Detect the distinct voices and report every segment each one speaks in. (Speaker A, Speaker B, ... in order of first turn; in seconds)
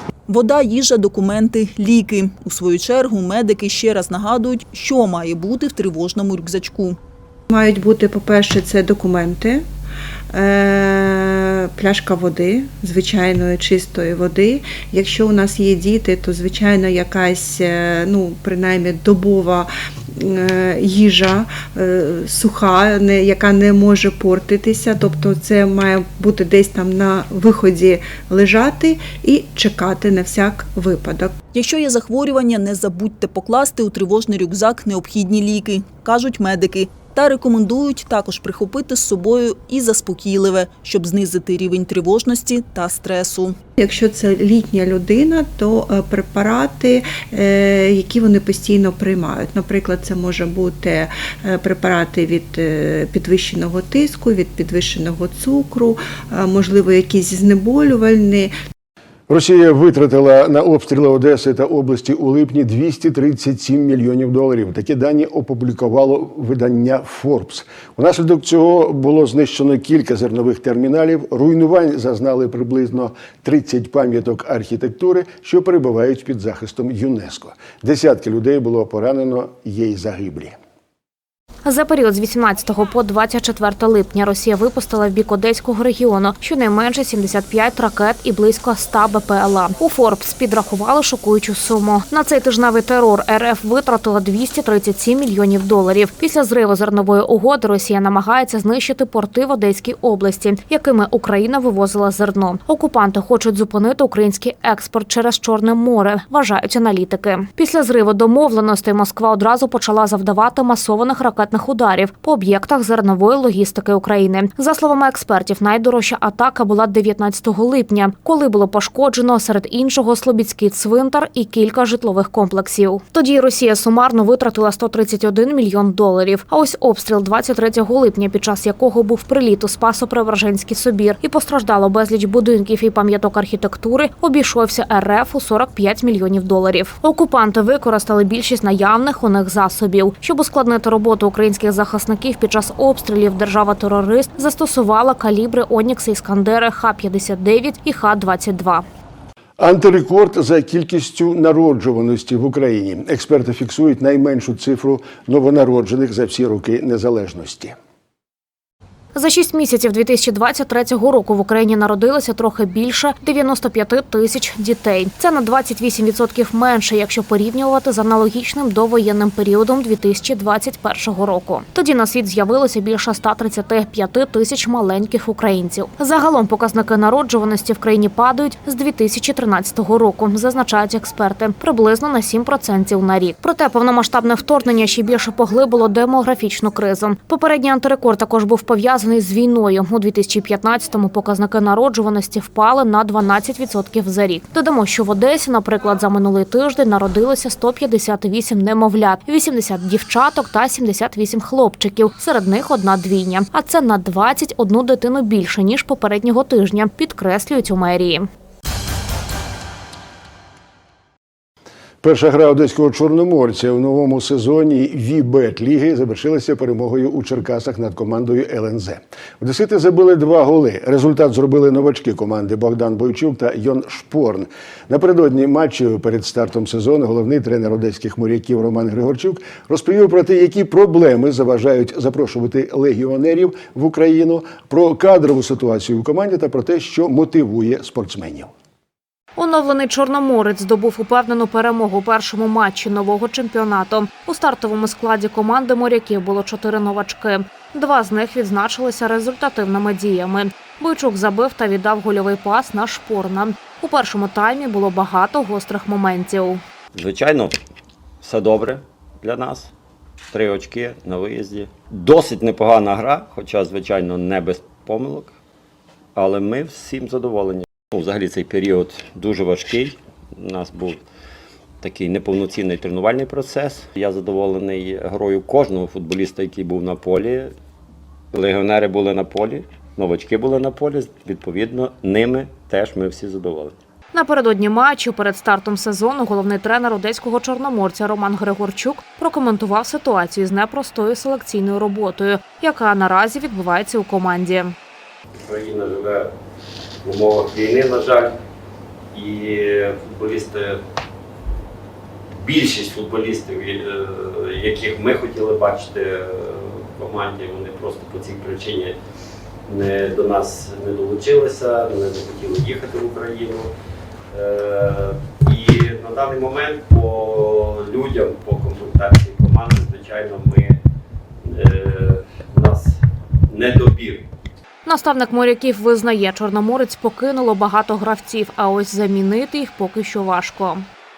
Speaker A: 0.3-7.0, 31.5-43.6
Speaker B: 7.5-9.7, 10.3-31.4, 43.8-58.5
Speaker C: 59.3-80.6, 149.6-157.8, 212.0-238.5
Speaker D: 81.7-148.8, 159.2-208.3, 239.4-256.6, 284.1-294.8, 324.9-330.9
Speaker E: 256.9-257.6, 258.2-259.7, 260.3-265.3, 266.2-271.0, 271.8-277.5, 278.3-283.8, 295.5-296.3, 297.0-298.4, 299.1-300.8, 302.4-308.9, 309.7-313.7, 314.3-320.8, 321.4-324.2